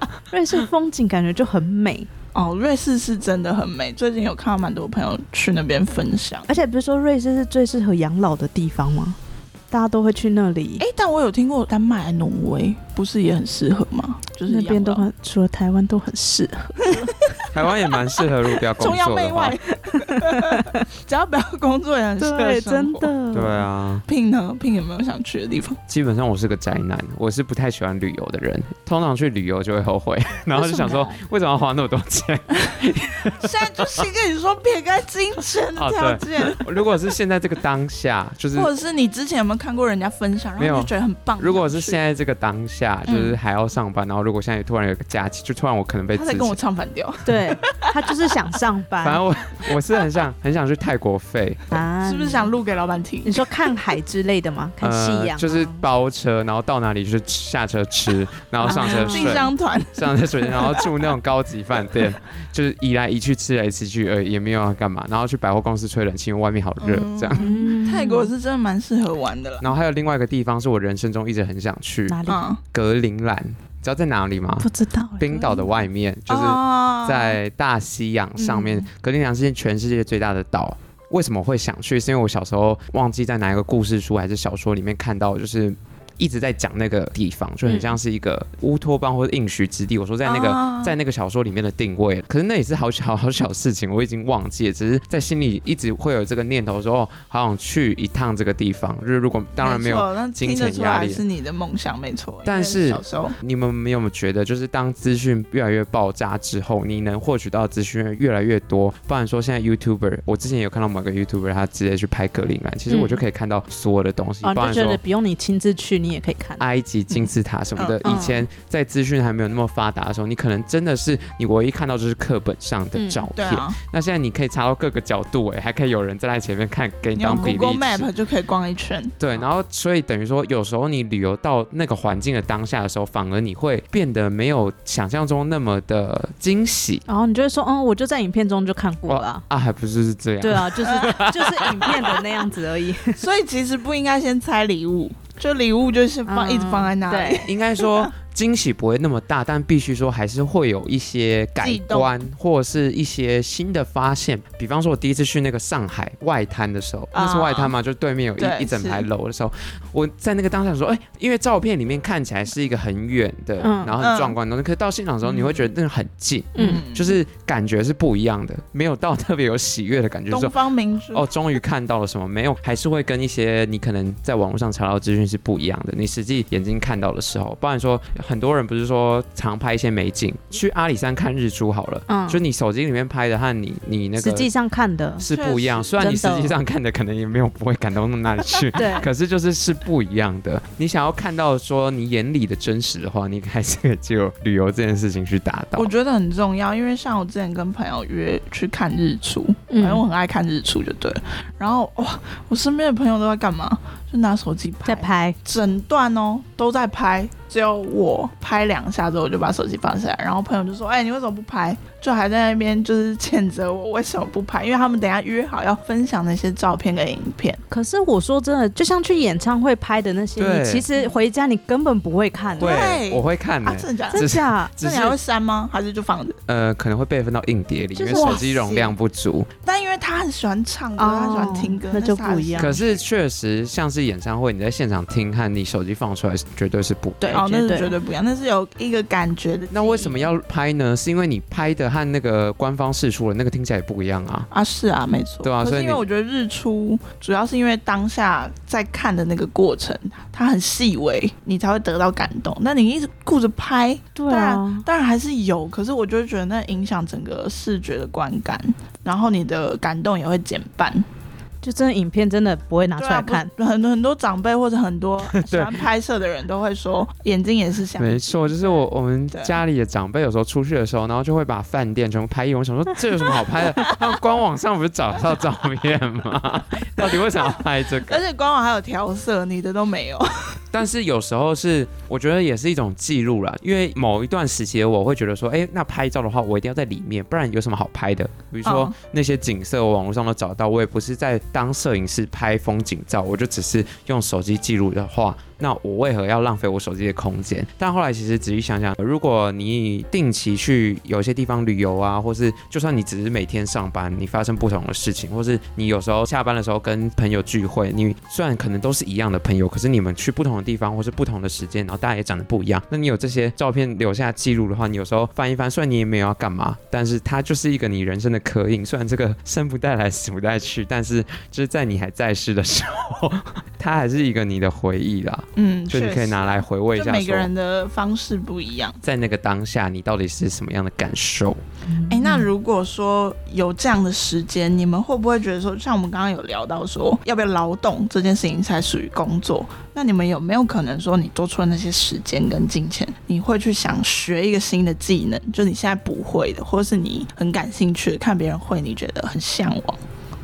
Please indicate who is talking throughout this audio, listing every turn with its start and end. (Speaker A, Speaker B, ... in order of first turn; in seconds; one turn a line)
Speaker A: 0.3-2.1
Speaker B: 2.3-6.5
Speaker A: 6.5-9.2
Speaker A: 9.7-10.8
Speaker B: 10.8-15.1
Speaker A: 14.5-17.1
Speaker B: 16.8-17.5
Speaker C: 17.5-19.6
Speaker B: 18.8-23.1
Speaker A: 20.1-20.8
Speaker A: 22.2-23.6
Speaker C: 23.3-24.0
Speaker B: 24.1-25.8
Speaker C: 25.9-34.0
Speaker A: 30.5-31.1
Speaker B: 33.3-36.6
Speaker C: 35.8-38.7
Speaker B: 38.5-42.0
Speaker C: 40.6-46.6
Speaker B: 46.1-48.1
Speaker A: 47.3-49.2
Speaker C: 49.0-51.7
Speaker A: 51.7-52.5
Speaker B: 52.0-53.7
Speaker A: 53.2-55.8
Speaker C: 54.8-67.4
Speaker A: 58.6-59.4
Speaker B: 58.7-60.9
Speaker B: 66.8-69.7
Speaker A: 67.4-68.3
Speaker C: 69.6-101.2
Speaker A: 72.1-72.4
Speaker B: 72.3-72.6
Speaker A: 74.6-75.6
Speaker B: 76.3-77.4
Speaker A: 78.4-78.7
Speaker A: 87.7-87.9
Speaker B: 90.2-91.0
Speaker B: 99.6-103.4
Speaker C: 102.5-115.0
Speaker A: 112.9-113.2
Speaker A: 114.4-116.7
Speaker C: 116.6-128.1
Speaker B: 117.8-118.3
Speaker A: 118.0-118.4
Speaker A: 122.9-123.3
Speaker B: 123.3-123.8
Speaker B: 127.2-129.1
Speaker C: 129.2-137.1
Speaker A: 137.1-139.4
Speaker C: 139.1-142.2
Speaker A: 140.4-143.2
Speaker B: 140.8-141.9
Speaker B: 143.2-148.1
Speaker A: 146.3-147.5
Speaker C: 147.5-170.6
Speaker B: 151.6-152.1
Speaker B: 157.1-157.7
Speaker B: 158.4-159.1
Speaker A: 163.6-163.9
Speaker B: 164.0-164.4
Speaker A: 166.6-166.8
Speaker B: 166.6-167.2
Speaker B: 170.3-171.3
Speaker C: 171.1-184.5
Speaker A: 182.1-182.4
Speaker A: 184.2-185.3
Speaker C: 185.2-195.9
Speaker B: 185.3-186.0
Speaker A: 186.0-186.6
Speaker A: 188.7-189.1
Speaker B: 195.8-217.6
Speaker A: 199.7-200.0
Speaker A: 204.9-205.4
Speaker A: 217.7-222.8
Speaker C: 220.4-220.9
Speaker C: 222.6-225.2
Speaker B: 222.6-226.4
Speaker A: 224.1-224.7
Speaker C: 226.5-229.5
Speaker A: 227.9-228.4
Speaker B: 228.1-228.9
Speaker B: 229.6-233.0
Speaker A: 231.0-232.8
Speaker C: 232.6-237.5
Speaker A: 237.2-237.9
Speaker B: 237.3-240.3
Speaker C: 239.7-244.5
Speaker B: 244.5-261.1
Speaker C: 245.4-246.0
Speaker A: 254.2-254.8
Speaker A: 261.6-263.5
Speaker B: 263.0-269.6
Speaker C: 265.4-265.8
Speaker C: 268.0-278.2
Speaker B: 277.0-280.6
Speaker C: 280.7-327.5
Speaker B: 288.6-288.9
Speaker B: 325.6-329.0
Speaker C: 329.0-331.6
Speaker A: 331.9-332.5
Speaker B: 332.1-350.0